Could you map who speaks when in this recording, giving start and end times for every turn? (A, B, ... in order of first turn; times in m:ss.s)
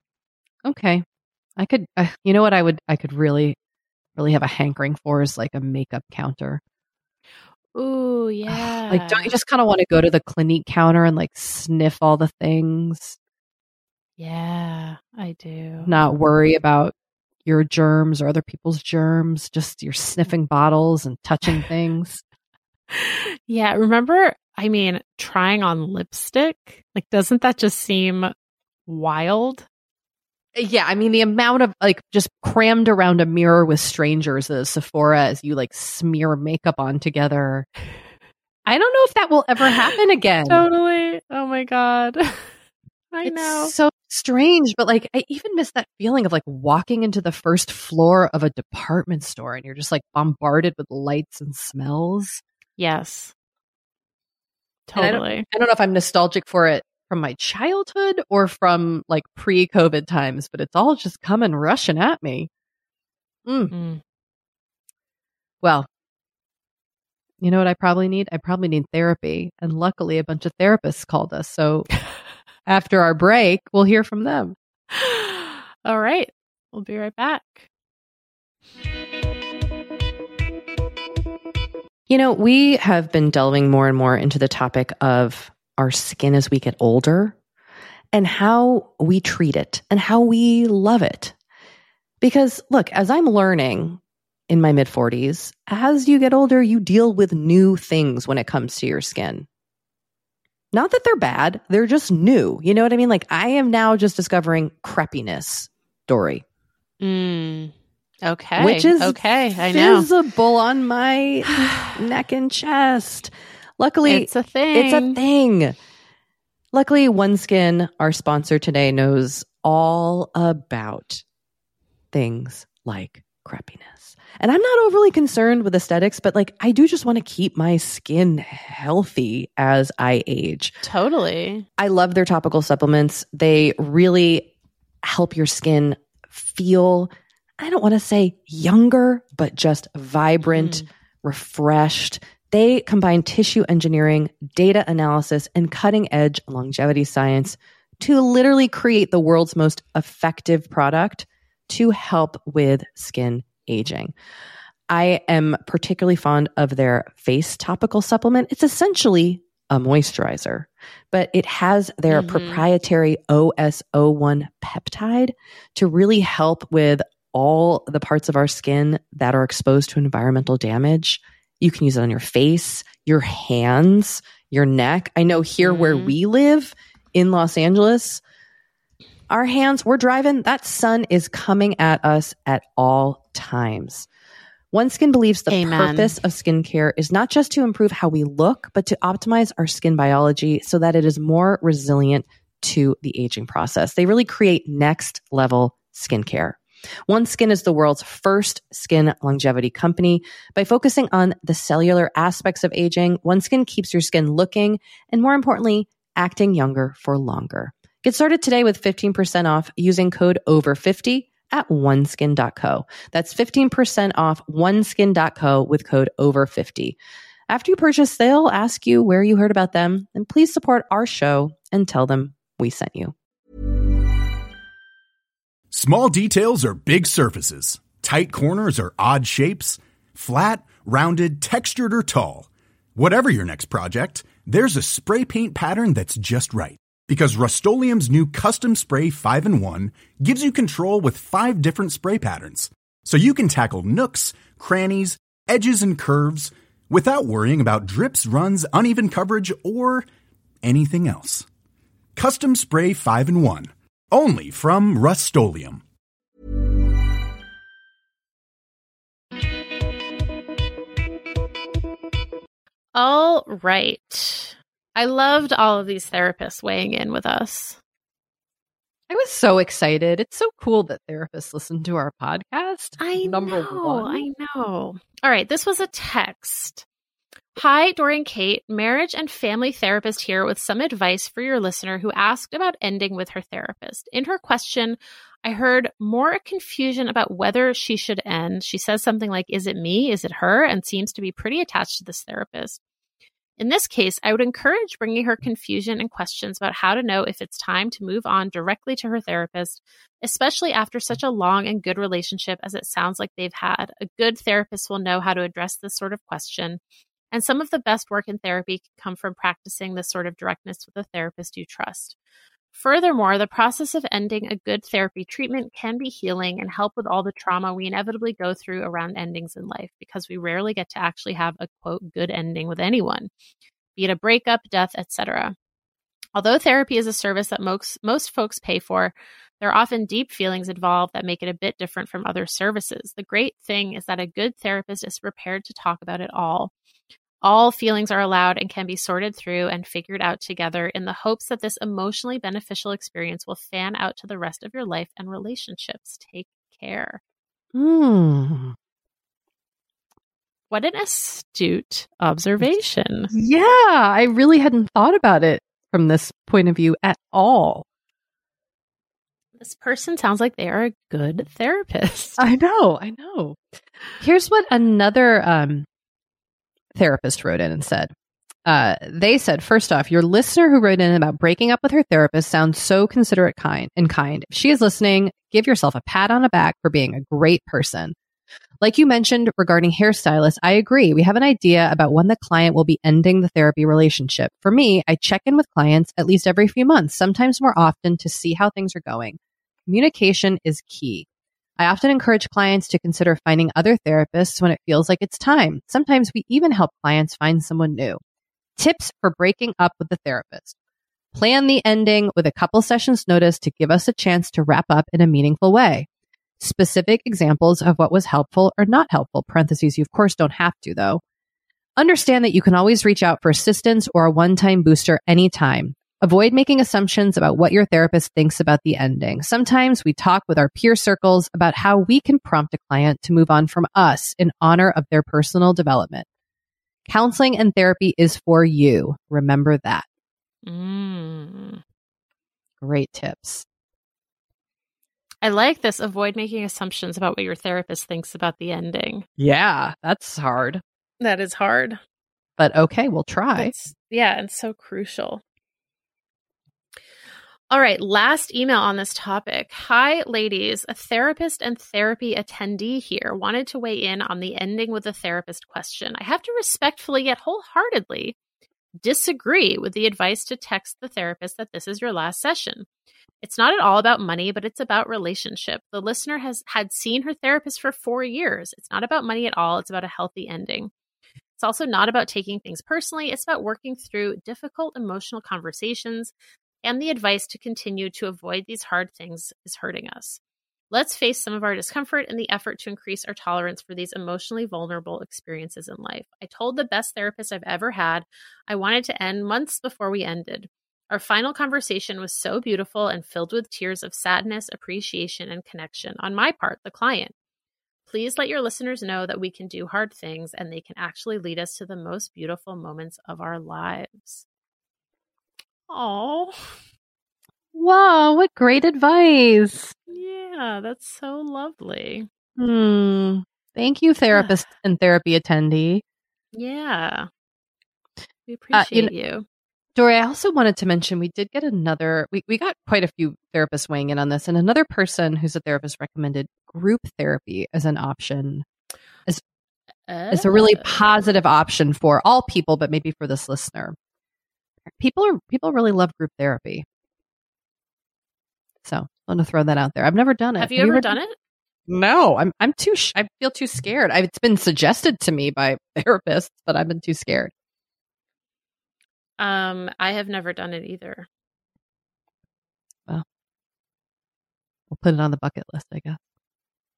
0:00.6-0:01.0 A
0:01.6-0:03.6 A
0:04.2-0:06.6 A
0:07.7-0:09.3 B
0:08.5-0:13.2 A
0:14.2-0:15.9 B
0:15.8-0:16.9 A
0:17.4-0:22.2 A
0:22.9-0:28.3 B
0:28.9-0:29.6 B
0:30.5-0:37.6 A
0:38.6-0:40.6 A
0:40.4-0:42.5 B
0:43.1-0:43.7 B
0:43.2-0:52.4 A
0:52.8-0:53.3 B
0:54.9-0:55.4 B
0:55.0-1:02.5 A
1:03.4-1:03.7 A
1:03.7-1:04.0 B
1:05.6-1:05.9 A
1:07.4-1:11.9 A
1:12.6-1:14.6 A
1:14.9-1:17.7 B
1:22.1-1:27.3 A
1:28.1-1:31.3 A
1:32.2-1:39.4 A
1:40.7-1:46.4 A
1:47.0-1:47.7 B
1:48.2-1:50.1 B
1:48.6-1:55.8 A
1:51.6-1:51.9 B
1:54.0-1:55.2 B
1:56.7-2:01.2 A
2:02.1-2:10.8 A
2:10.8-2:11.6 B
2:11.8-2:14.5 A
2:15.0-2:34.1 A
2:20.5-2:20.9 B
2:34.9-2:58.2 A
2:42.1-2:42.6 B
2:55.6-2:56.1 B
2:59.3-3:04.1 A
3:04.7-3:37.0 A
3:05.5-3:06.2 B
3:37.5-3:43.1 A
3:45.7-4:10.0 C
4:10.6-4:11.5 C
4:12.2-4:15.8 C
4:22.9-4:27.8 B
4:29.1-4:34.3 A
4:33.0-4:36.8 B
4:37.6-4:52.8 B
4:53.6-5:06.8 B
5:07.3-5:12.2 B
5:12.7-5:23.3 B
5:24.0-5:25.6 B
5:26.3-5:36.7 B
5:37.4-5:47.2 B
5:47.7-5:48.8 A
5:50.7-5:53.3 B
5:53.3-5:57.8 A
5:59.6-6:02.4 B
6:02.4-6:03.6 A
6:04.2-6:05.8 A
6:07.0-6:08.1 A
6:08.6-6:18.1 A
6:18.8-6:31.2 A
6:31.8-6:38.2 A
6:38.8-6:40.8 A
6:41.3-6:46.1 A
6:46.6-6:51.2 A
6:52.0-7:06.2 A
7:07.1-7:10.0 A
7:10.6-7:11.8 B
7:12.8-7:13.6 A
7:15.4-7:19.2 B
7:19.4-7:20.8 A
7:21.2-7:22.0 B
7:22.6-7:23.7 A
7:23.5-7:25.4 B
7:27.7-7:38.4 B
7:39.0-7:42.9 B
7:43.4-7:50.9 B
7:51.6-7:56.3 B
7:56.8-8:00.4 B
8:00.9-8:17.3 B
8:18.0-8:24.4 B
8:25.9-8:26.8 B
8:27.7-8:29.9 A
8:30.1-8:32.3 B
8:32.6-8:36.0 A
8:34.3-8:34.6 B
8:36.5-8:37.3 B
8:38.5-8:39.4 B
8:38.7-8:39.1 A
8:40.0-8:48.6 A
8:50.1-8:51.2 B
8:50.3-8:54.0 A
8:55.0-8:56.8 A
8:58.8-9:01.2 A
9:00.6-9:01.4 B
9:01.9-9:07.5 A
9:09.4-9:11.3 B
9:14.9-9:16.2 A